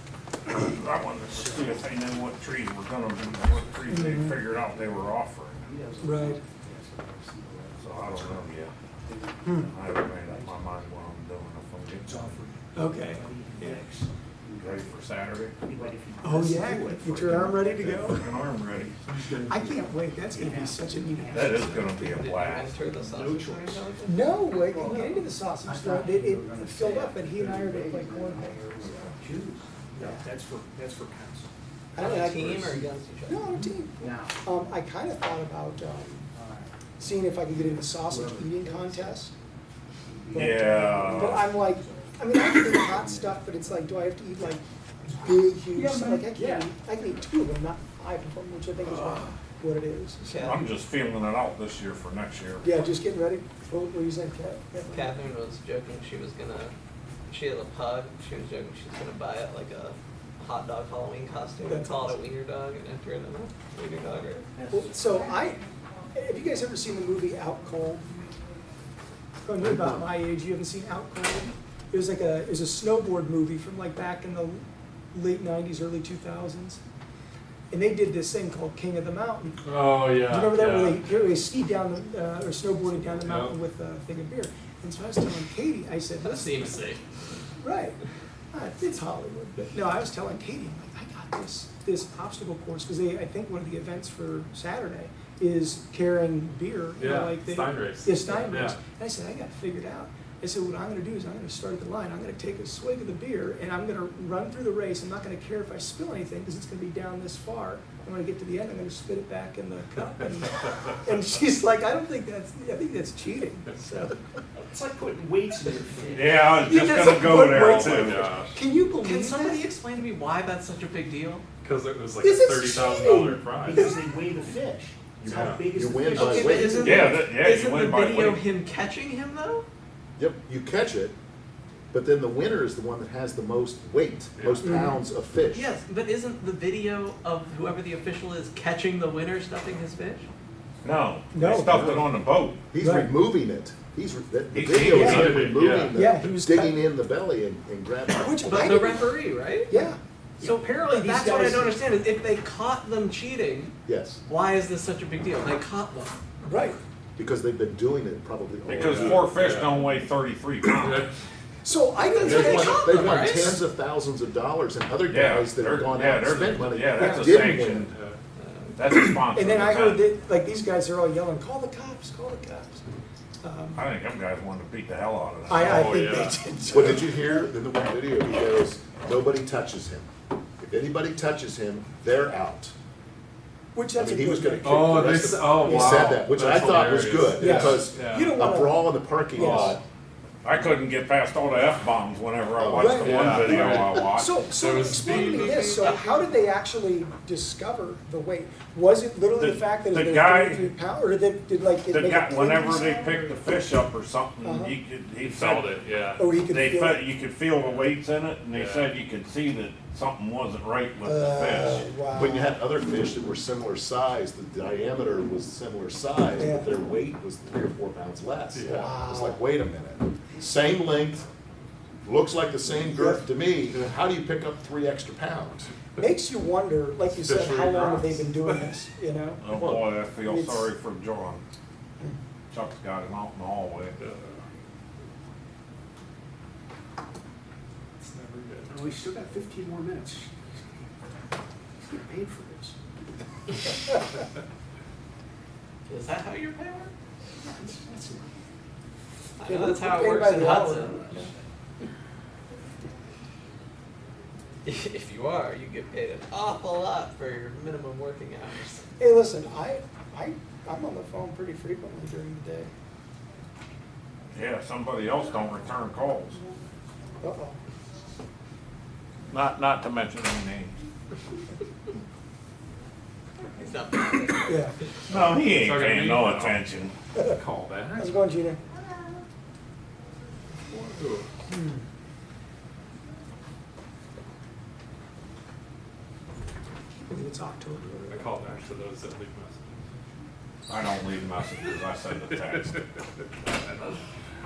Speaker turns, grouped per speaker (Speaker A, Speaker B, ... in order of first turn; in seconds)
Speaker A: 0.5-5.7, 7.8-8.7, 9.5-12.4, 14.6-15.6, 17.0-19.0, 21.3-22.8, 40.3-41.5, 50.4-52.8, 116.1-118.3, 126.8-128.4, 140.8-142.6, 144.5-145.8, 158.7-161.1, 165.1-167.9, 168.8-170.1, 173.8-176.0, 190.4-194.4, 199.4-200.8, 201.9-205.7, 206.4-211.9, 229.4-231.4, 232.5-234.0, 264.3-266.4, 269.3-270.8, 275.1-276.9, 290.7-292.8
Speaker B: 0.9-2.4, 3.1-11.2, 12.0-21.9, 22.8-23.9, 24.6-31.5, 34.0-34.4, 36.3-36.7, 37.5-39.2, 40.0-43.9, 45.7-46.7, 64.5-65.2, 114.6-116.6, 123.6-127.1, 150.4-151.8, 238.7-240.3, 241.8-242.8, 247.4-248.2
Speaker C: 3.9-4.4, 6.0-6.4, 9.4-9.7, 12.8-13.8, 16.2-18.2, 19.4-22.2, 24.0-29.1, 30.0-30.2, 31.9-36.3, 37.0-39.3, 40.3-50.6, 52.6-55.1, 61.6-62.2, 64.7-65.6, 66.1-68.0, 69.4-76.8, 77.7-79.6, 80.2-86.8, 87.6-88.0, 88.5-114.2, 116.6-119.6, 122.2-124.1, 141.3-142.1, 142.8-143.1, 144.9-145.3, 145.9-146.8, 148.2-149.1, 149.7-150.0, 156.4-156.8, 161.6-163.0, 167.0-167.5, 168.9-172.8, 173.4-173.9, 175.5-177.5, 183.7-186.2, 187.4-189.8, 192.8-203.4, 204.4-204.8, 206.2-207.0, 211.0-212.6, 216.4-216.7, 218.7-219.4, 222.7-223.2, 226.0-229.4, 230.2-230.7, 249.5-251.3, 259.0-262.7, 267.2-267.6, 274.4-274.7, 277.9-278.6, 281.5-281.8, 287.1-288.3
Speaker D: 22.1-25.1, 32.0-33.6, 50.2-50.7, 54.9-56.7, 57.3-64.5, 86.2-87.0, 119.0-121.4, 126.1-129.7, 135.5-140.3, 148.5-149.8, 150.4-153.7, 154.3-156.2, 162.0-163.6, 168.4-168.7, 245.9-246.9, 249.4-251.1, 254.6-258.9, 273.5-274.6
Speaker E: 69.6-70.1, 125.2-126.9, 130.2-131.2, 131.9-135.7, 141.7-142.0, 142.7-148.9, 153.9-154.2, 157.2-159.5, 162.2-167.9, 176.7-182.7, 184.0-189.8, 192.6-194.1, 212.1-221.2, 222.1-225.7
Speaker F: 79.8-80.9, 97.1-98.8, 118.1-118.5, 121.7-123.5, 175.8-176.3, 184.8-185.6, 186.1-187.2, 194.7-195.4, 205.5-206.1, 208.6-208.8, 227.3-227.7, 275.6-276.3, 288.3-289.5